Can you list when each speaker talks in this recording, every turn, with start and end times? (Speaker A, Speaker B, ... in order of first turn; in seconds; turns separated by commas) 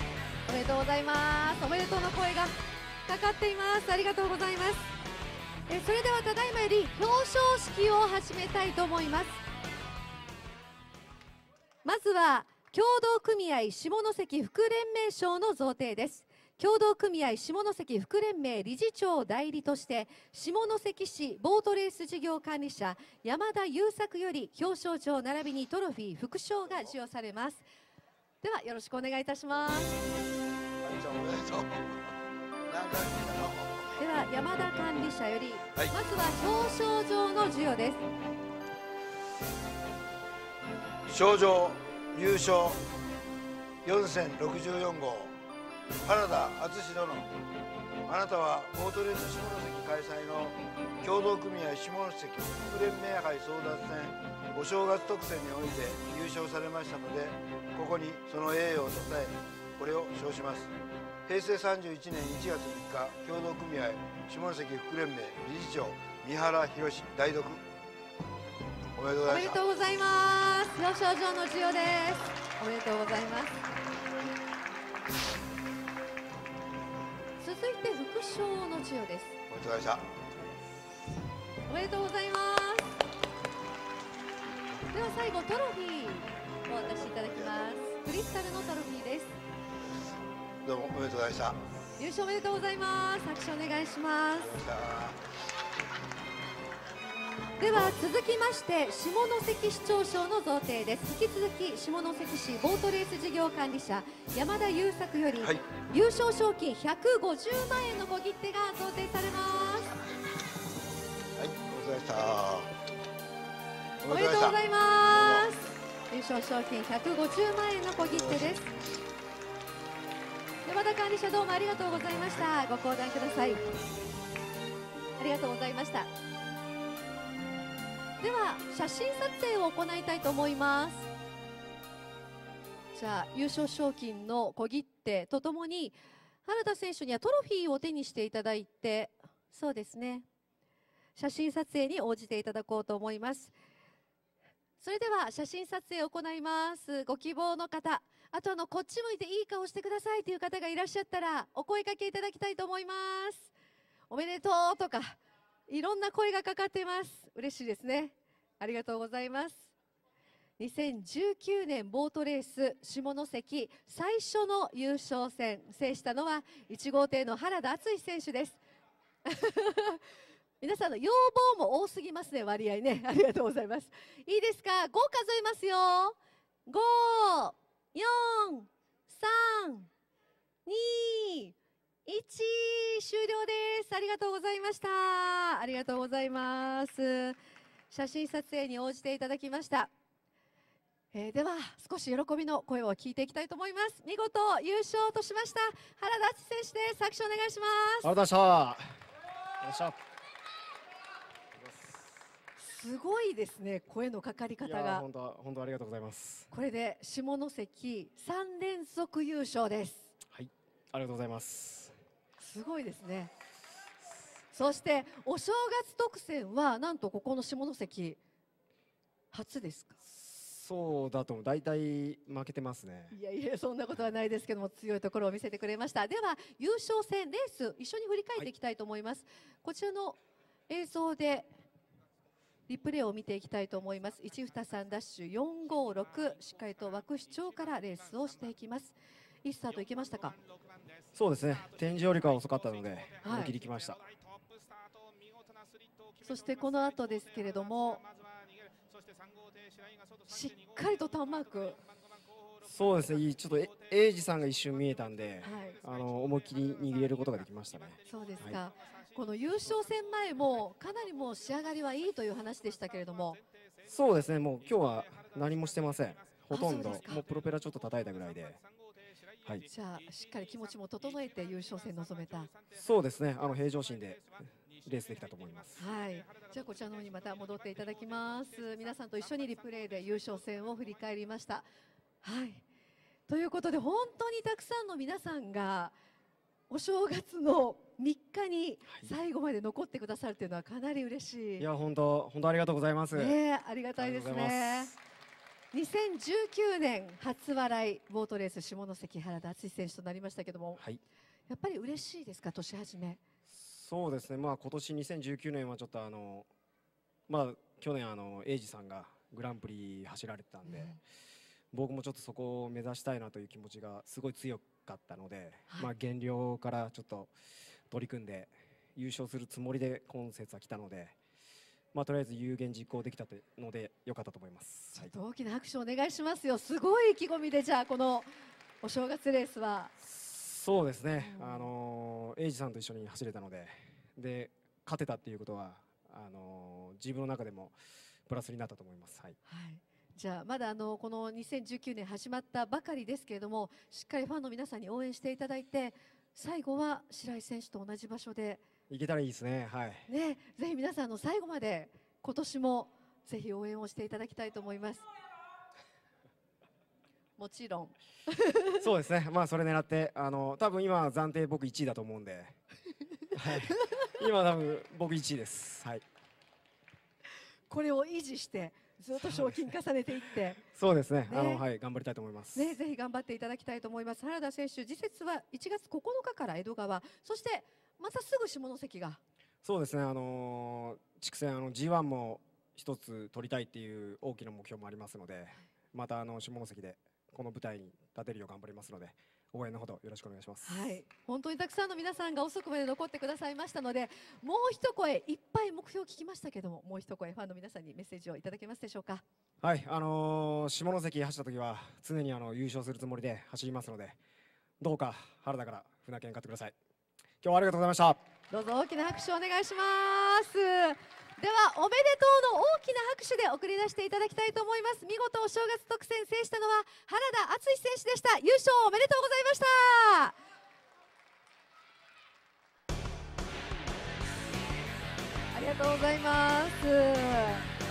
Speaker A: 0.5-2.5, Speaker A: 3.0-4.9, Speaker A: 5.7-9.4, Speaker A: 11.8-27.6, Speaker A: 28.4-30.0, Speaker B: 30.8-32.0, Speaker B: 32.7-34.0, Speaker A: 34.0-38.0, Speaker B: 41.1-42.8, Speaker B: 43.8-45.4, Speaker B: 46.0-47.3, Speaker B: 48.1-60.7, Speaker B: 61.3-67.6, Speaker B: 69.0-69.6, Speaker A: 69.2-73.5, Speaker A: 77.4-79.4, Speaker B: 79.5-80.1, Speaker A: 81.7-83.0, Speaker A: 84.9-89.4, Speaker B: 90.7-91.6, Speaker A: 92.0-94.6, Speaker B: 94.4-95.2, Speaker A: 97.6-110.0, Speaker B: 111.4-112.7, Speaker B: 114.0-114.6, Speaker A: 114.1-118.7, Speaker B: 115.2-115.5, Speaker A: 120.6-123.6, Speaker A: 125.2-126.1, Speaker A: 128.2-131.1, Speaker A: 132.9-140.2, Speaker A: 141.2-143.5, Speaker A: 144.8-153.5, Speaker A: 154.1-159.7, Speaker A: 160.6-168.6, Speaker A: 169.2-170.0, Speaker A: 170.6-179.9, Speaker A: 180.7-187.4, Speaker A: 187.9-189.9, Speaker A: 191.1-198.1, Speaker C: 198.0-199.0, Speaker C: 199.6-200.0, Speaker C: 201.5-202.2, Speaker A: 202.6-205.1, Speaker C: 204.6-206.5, Speaker A: 206.5-210.1, Speaker C: 210.3-211.9, Speaker A: 212.4-213.3, Speaker A: 214.5-218.2, Speaker A: 219.3-220.0, Speaker C: 220.1-223.1, Speaker A: 223.1-231.5, Speaker A: 232.7-240.3, Speaker C: 241.1-244.0, Speaker A: 243.2-243.5, Speaker A: 246.2-248.0, Speaker A: 250.3-251.8, Speaker C: 252.6-258.6, Speaker A: 255.4-255.8, Speaker A: 258.1-263.4, Speaker C: 263.9-268.6, Speaker A: 266.5-267.2, Speaker A: 269.7-272.5, Speaker C: 272.7-275.8, Speaker A: 275.8-281.7, Speaker A: 282.2-282.6, Speaker A: 283.3-285.9, Speaker A: 286.7-291.7, Speaker C: 291.6-293.4, Speaker A: 293.1-294.9, Speaker C: 294.0-294.9, Speaker A: 295.7-300.8, Speaker A: 301.5-303.2, Speaker C: 303.5-306.5, Speaker C: 307.3-310.9, Speaker A: 310.6-311.0, Speaker C: 311.7-317.3, Speaker C: 317.9-321.1, Speaker C: 321.9-325.1, Speaker A: 324.9-328.3, Speaker A: 328.8-329.9, Speaker C: 330.0-337.8, Speaker A: 331.2-331.7, Speaker C: 338.3-339.4, Speaker A: 339.4-348.6, Speaker C: 348.9-350.1, Speaker A: 350.1-355.0, Speaker A: 357.4-358.9, Speaker C: 358.8-362.6, Speaker C: 363.3-366.0, Speaker A: 367.7-370.6, Speaker C: 370.7-372.8, Speaker A: 371.3-371.6, Speaker A: 372.6-379.2, Speaker C: 379.6-390.8, Speaker A: 390.6-399.2, Speaker C: 399.6-404.2, Speaker C: 404.8-406.8, Speaker C: 407.4-408.2, Speaker A: 408.5-420.3, Speaker A: 425.5-427.6